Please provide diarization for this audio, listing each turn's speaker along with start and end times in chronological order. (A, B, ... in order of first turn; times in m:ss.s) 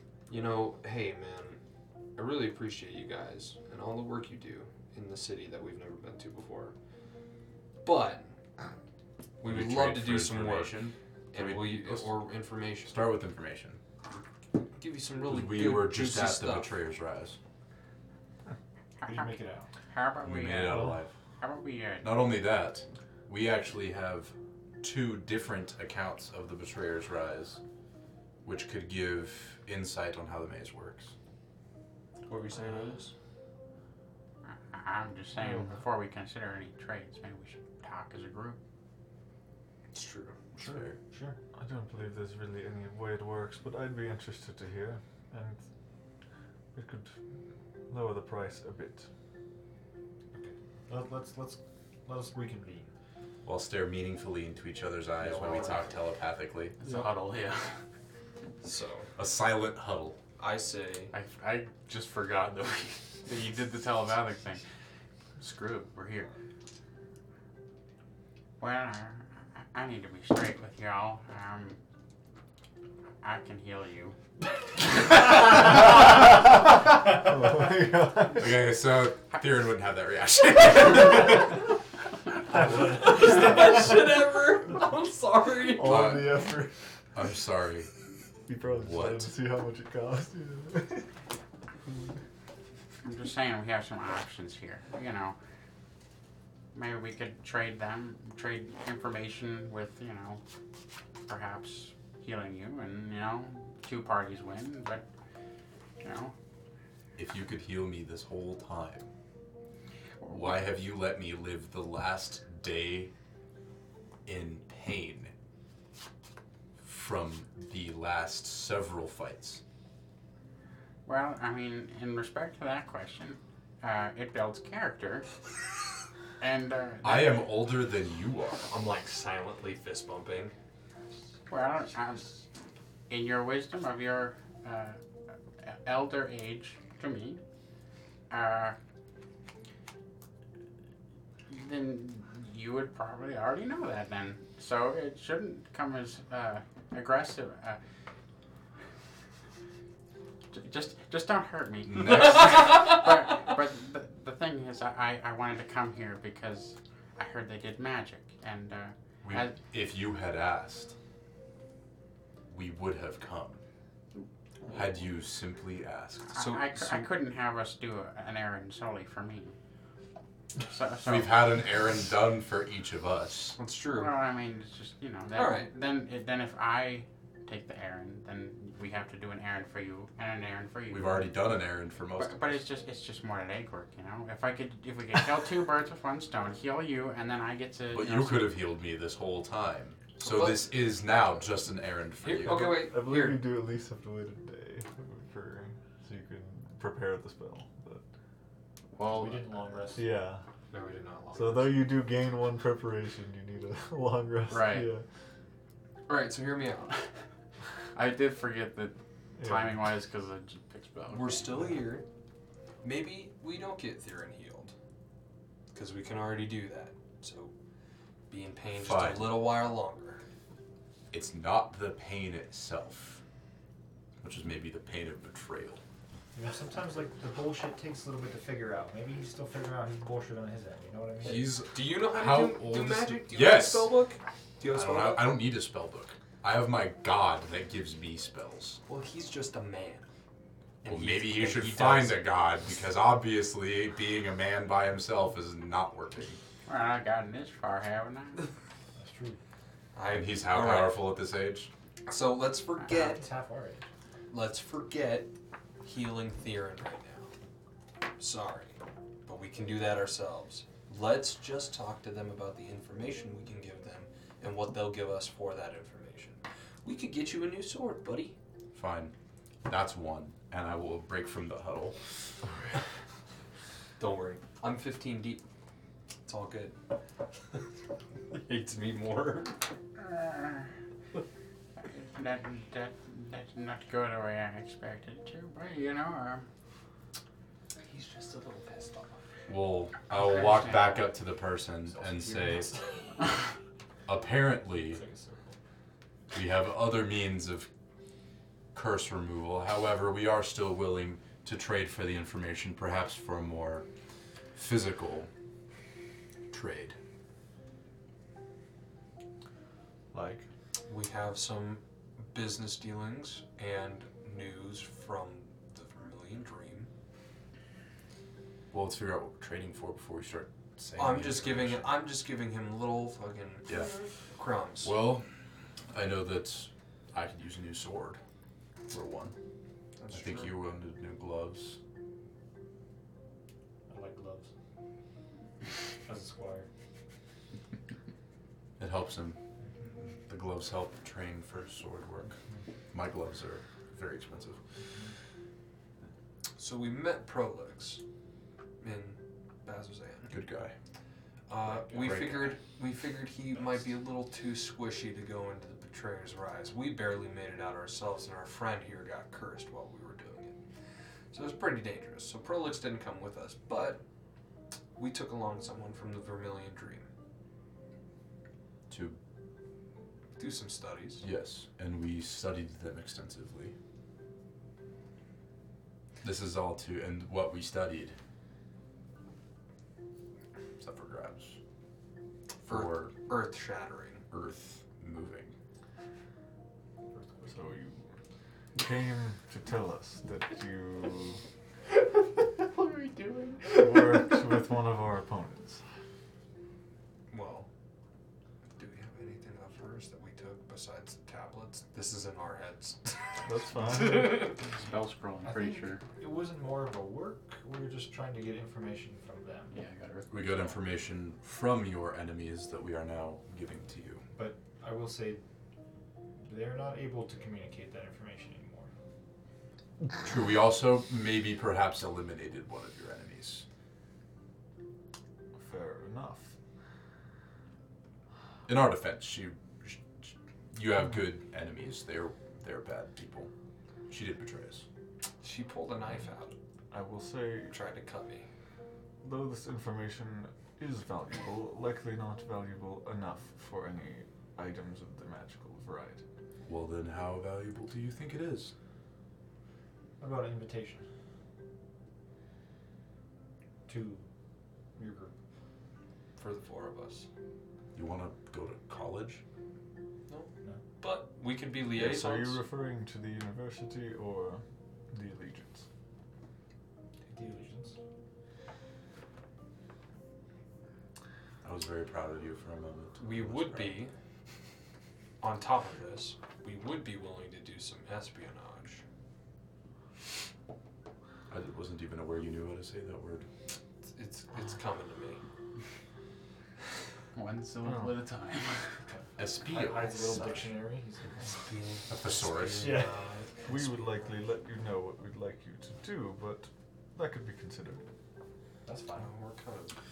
0:00.3-0:01.6 A
0:02.2-0:06.8 A
0:07.8-0:08.4 A
0:09.4-0:13.1 A
0:09.4-0:12.2 B
0:12.8-0:13.8 B
0:14.8-0:16.7 A
0:15.2-0:17.4 B
0:19.0-0:19.3 C
0:19.0-0:19.7 D
0:19.9-0:22.2 C
0:20.2-0:21.2 B
0:22.0-0:27.6 B
0:28.4-0:31.1 B
0:32.3-0:33.1 A
0:34.7-0:38.6 C
0:39.9-0:40.4 A
0:40.5-0:41.0 B
0:40.6-0:41.4 D
0:41.5-0:45.6 E
0:46.7-0:47.2 E
0:47.9-0:49.1 E
0:50.4-0:52.9 D
0:53.4-0:56.8 B
0:55.2-0:55.9 A
0:56.8-0:57.8 C
0:58.6-0:59.1 A
0:59.2-1:00.2 B
1:00.4-1:01.1 A
1:01.1-1:04.6 C
1:05.4-1:06.3 C
1:08.6-1:11.8 C
1:13.2-1:14.2 C
1:17.1-1:18.6 E
1:18.3-1:21.5 B
1:22.5-1:23.8 D
1:22.8-1:26.1 A
1:25.7-1:26.7 E
1:25.8-1:26.4 B
1:27.2-1:27.9 B
1:28.5-1:31.1 E
1:28.8-1:29.3 B
1:33.0-1:35.4 C
1:36.7-1:40.4 C
1:41.2-1:45.0 C
1:46.0-1:46.3 C
1:47.2-1:49.1 B
1:50.2-1:50.7 C
1:50.3-1:53.1 B
1:54.2-1:55.3 B
1:56.8-1:59.6 B
2:01.0-2:05.4 C
2:06.4-2:07.5 C
2:07.0-2:08.7 B
2:08.7-2:10.5 A
2:11.5-2:12.4 C
2:13.1-2:15.0 C
2:15.6-2:17.4 C
2:18.3-2:18.8 C
2:21.5-2:27.8 C
2:30.5-2:39.6 C
2:31.9-2:32.7 B
2:39.2-2:41.0 B
2:42.5-2:43.6 B
2:44.7-2:46.3 B
2:46.3-2:49.5 C
2:46.3-2:47.1 A
2:50.6-2:51.4 C
2:51.0-2:53.6 B
2:53.6-2:54.1 A
2:53.9-3:01.4 C
2:55.3-2:55.7 A
3:00.9-3:02.6 B
3:02.2-3:08.6 C
3:07.9-3:12.9 B
3:10.2-3:10.7 A
3:12.2-3:13.5 A
3:12.4-3:18.0 E
3:18.9-3:19.5 C
3:19.0-3:20.1 D
3:20.0-3:20.4 E
3:20.7-3:21.9 A
3:21.3-3:25.0 E
3:24.5-3:24.9 C
3:26.1-3:26.9 A
3:28.0-3:31.7 C
3:29.4-3:29.8 E
3:31.1-3:32.1 A
3:32.8-3:34.7 A
3:35.7-3:37.5 A
3:38.3-3:40.2 A
3:38.8-3:39.5 B
3:41.1-3:43.2 B
3:44.2-3:45.8 B
3:46.4-3:51.5 D
3:51.2-3:53.9 B
3:51.2-3:55.4 A
3:54.7-3:58.8 B
3:58.9-4:00.1 A
4:00.8-4:02.3 A
4:00.8-4:06.4 B
4:06.7-4:08.4 C
4:09.0-4:09.4 D
4:09.9-4:11.0 A
4:10.1-4:11.7 B
4:12.1-4:13.2 A
4:12.9-4:13.9 D
4:14.3-4:15.3 A
4:15.8-4:17.3 A
4:18.2-4:28.4 A
4:28.8-4:29.1 B
4:29.6-4:32.0 B
4:34.0-4:35.4 A
4:36.3-4:36.8 A
4:38.3-4:39.7 A
4:40.0-4:40.7 C
4:41.8-4:46.4 C
4:47.9-4:49.2 D
4:49.5-4:52.8 B
4:50.1-4:51.1 C
4:51.9-4:53.3 D
4:54.1-4:55.0 B
4:54.9-4:55.6 D
4:56.3-4:57.7 B
4:58.7-5:03.9 B
5:04.6-5:05.3 B
5:06.5-5:07.0 B
5:10.1-5:10.4 E
5:10.9-5:16.9 A
5:18.7-5:22.0 B
5:21.0-5:25.0 A
5:23.7-5:24.0 B
5:24.8-5:25.3 B
5:25.9-5:28.2 B
5:28.9-5:29.4 B
5:30.0-5:30.6 A
5:30.1-5:31.8 B
5:33.9-5:34.5 D
5:36.0-5:36.7 D
5:38.8-5:39.4 B
5:40.0-5:42.4 B
5:42.9-5:44.6 B
5:46.6-5:48.0 A
5:48.8-5:50.3 A
5:50.3-5:50.8 B
5:51.5-6:00.6 A
5:51.7-5:52.6 B
6:01.3-6:04.0 A
6:05.0-6:07.1 A
6:08.9-6:09.2 B
6:10.4-6:11.2 A
6:11.2-6:13.8 B
6:16.2-6:18.2 B
6:20.8-6:21.6 B
6:22.6-6:24.2 A
6:22.6-6:23.2 B
6:24.3-6:25.5 B
6:27.5-6:28.2 E
6:28.8-6:31.4 E
6:32.7-6:34.3 C
6:33.8-6:35.8 E
6:37.3-6:37.7 A
6:38.8-6:43.2 A
6:43.4-6:44.6 E
6:44.1-6:44.5 A
6:44.1-6:46.0 C
6:45.4-6:49.7 D
6:49.7-6:50.8 C
6:50.3-6:54.2 B
6:54.4-6:55.4 D
6:56.4-6:58.9 D
7:00.2-7:03.6 B
7:05.6-7:06.5 E
7:08.7-7:13.5 B
7:14.1-7:14.9 B
7:15.4-7:16.6 A
7:16.9-7:17.7 E
7:17.7-7:18.5 A
7:19.2-7:26.2 E
7:26.6-7:28.7 B
7:30.2-7:31.0 D
7:33.9-7:34.3 D
7:35.0-7:35.3 D
7:36.4-7:37.3 A
7:37.9-7:39.4 B
7:40.3-7:42.6 A
7:41.9-7:45.8 E
7:47.3-7:48.0 D
7:51.6-7:54.1 B
7:53.2-7:54.1 A
7:55.4-7:59.0 A
8:01.5-8:03.5 B
8:04.1-8:05.4 A
8:07.3-8:09.0 C
8:07.8-8:08.1 E
8:09.1-8:11.6 D
8:09.4-8:10.7 B
8:11.5-8:13.7 A
8:12.1-8:13.0 B
8:12.8-8:13.3 D
8:13.7-8:18.0 E
8:18.8-8:19.3 D
8:19.2-8:19.9 A